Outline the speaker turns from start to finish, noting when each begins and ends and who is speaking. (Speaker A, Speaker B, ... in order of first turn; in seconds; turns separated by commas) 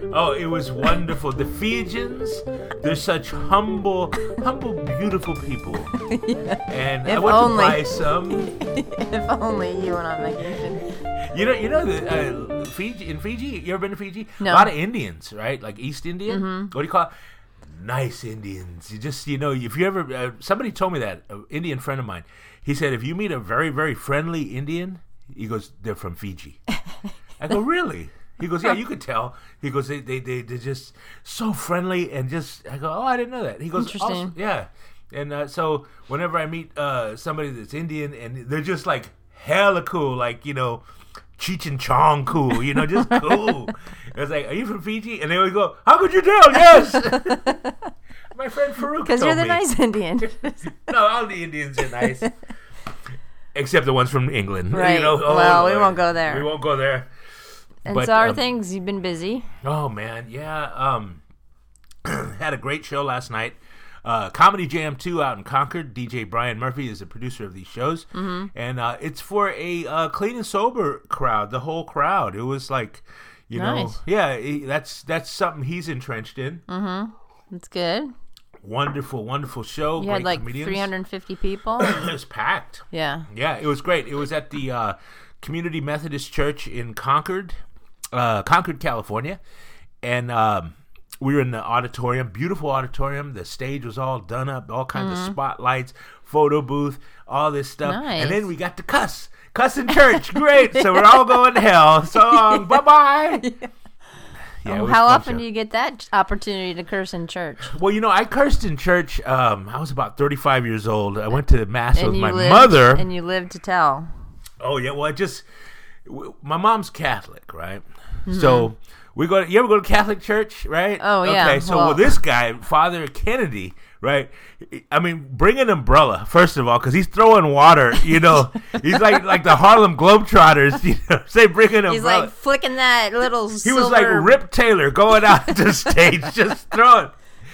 Speaker A: 0.1-5.9, Speaker B: 6.0-10.9, Speaker A: 6.7-8.5, Speaker A: 11.2-17.1, Speaker B: 14.4-14.7, Speaker B: 16.3-16.7, Speaker A: 17.7-26.6, Speaker A: 27.4-40.8, Speaker B: 33.8-34.3, Speaker A: 41.4-47.5, Speaker B: 42.7-43.7, Speaker B: 46.6-47.9, Speaker A: 48.3-49.6, Speaker B: 49.0-50.7, Speaker A: 50.2-52.3, Speaker B: 51.8-52.3, Speaker A: 53.5-57.1, Speaker B: 54.7-56.5, Speaker B: 57.9-59.5, Speaker A: 57.9-58.4, Speaker A: 59.6-61.2, Speaker A: 62.0-76.6, Speaker B: 68.1-68.5, Speaker B: 73.5-74.0, Speaker B: 76.7-78.1, Speaker A: 78.6-80.9, Speaker B: 80.0-82.0, Speaker A: 81.8-87.6, Speaker B: 82.9-83.3, Speaker A: 88.1-89.4, Speaker A: 90.0-103.5, Speaker B: 95.0-95.4, Speaker B: 97.8-98.5, Speaker B: 100.4-101.4, Speaker B: 102.1-102.7, Speaker B: 103.4-103.7, Speaker A: 104.6-105.4, Speaker B: 104.7-107.7, Speaker A: 107.7-113.1, Speaker B: 112.0-114.1, Speaker A: 114.6-115.5, Speaker A: 116.0-132.3, Speaker B: 118.3-118.7, Speaker B: 121.0-122.2, Speaker B: 131.9-134.4, Speaker A: 133.6-137.1